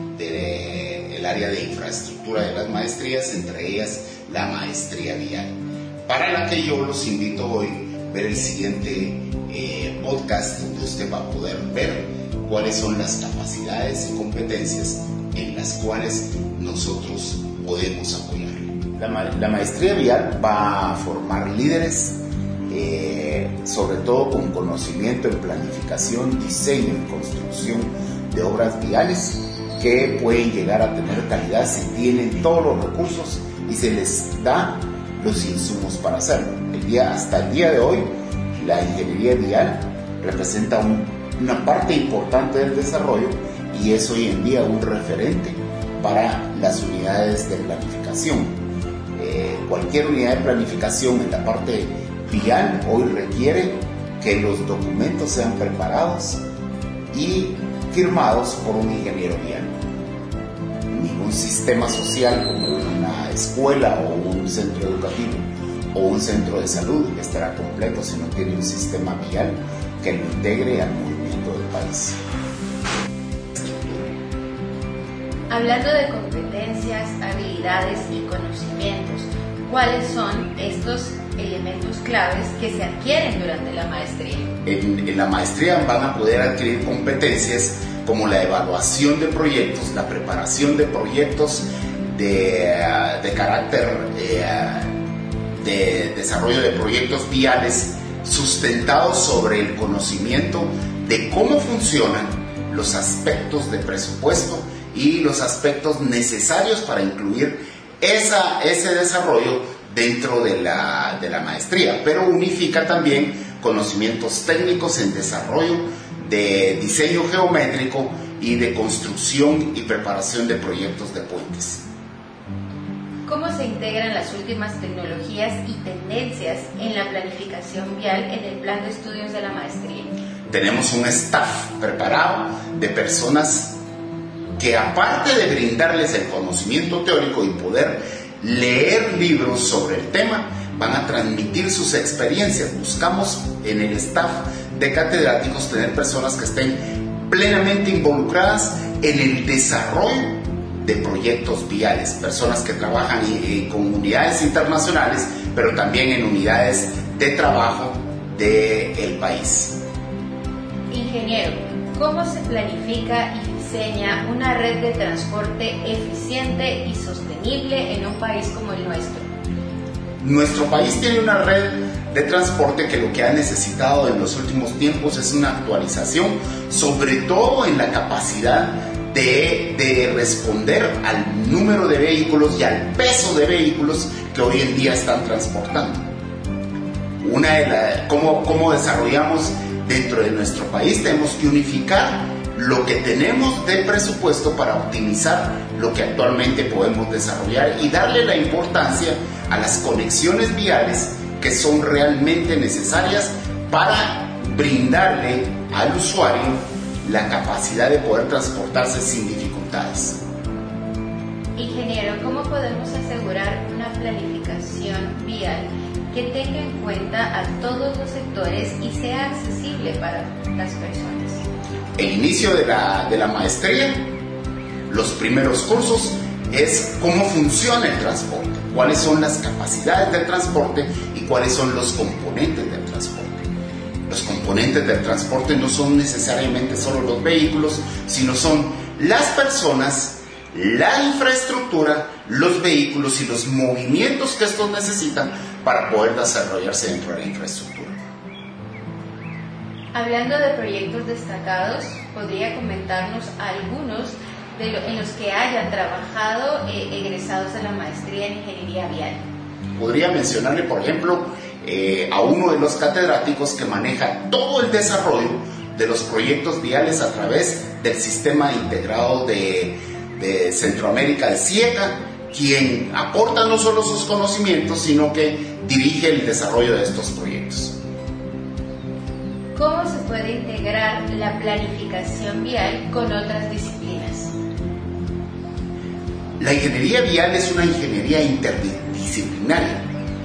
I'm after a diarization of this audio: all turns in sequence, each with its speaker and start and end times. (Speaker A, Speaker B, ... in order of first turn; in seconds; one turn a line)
Speaker A: 0.1-5.5
Speaker A: 6.1-48.6
Speaker A: 49.2-56.4
Speaker A: 57.1-59.8
Speaker A: 60.9-72.2
Speaker A: 73.6-74.0
Speaker B: 75.5-84.5
Speaker A: 84.7-94.9
Speaker A: 95.6-121.8
Speaker B: 123.3-130.2
Speaker A: 130.5-133.8
Speaker A: 134.6-159.8
Speaker B: 160.9-169.3
Speaker A: 170.2-186.1
Speaker A: 187.2-210.2
Speaker B: 211.6-221.4
Speaker A: 222.0-224.1
Speaker A: 224.9-233.4
Speaker A: 234.1-248.0
Speaker B: 249.9-259.2
Speaker A: 259.8-277.8
Speaker B: 279.5-284.3
Speaker A: 286.4-289.9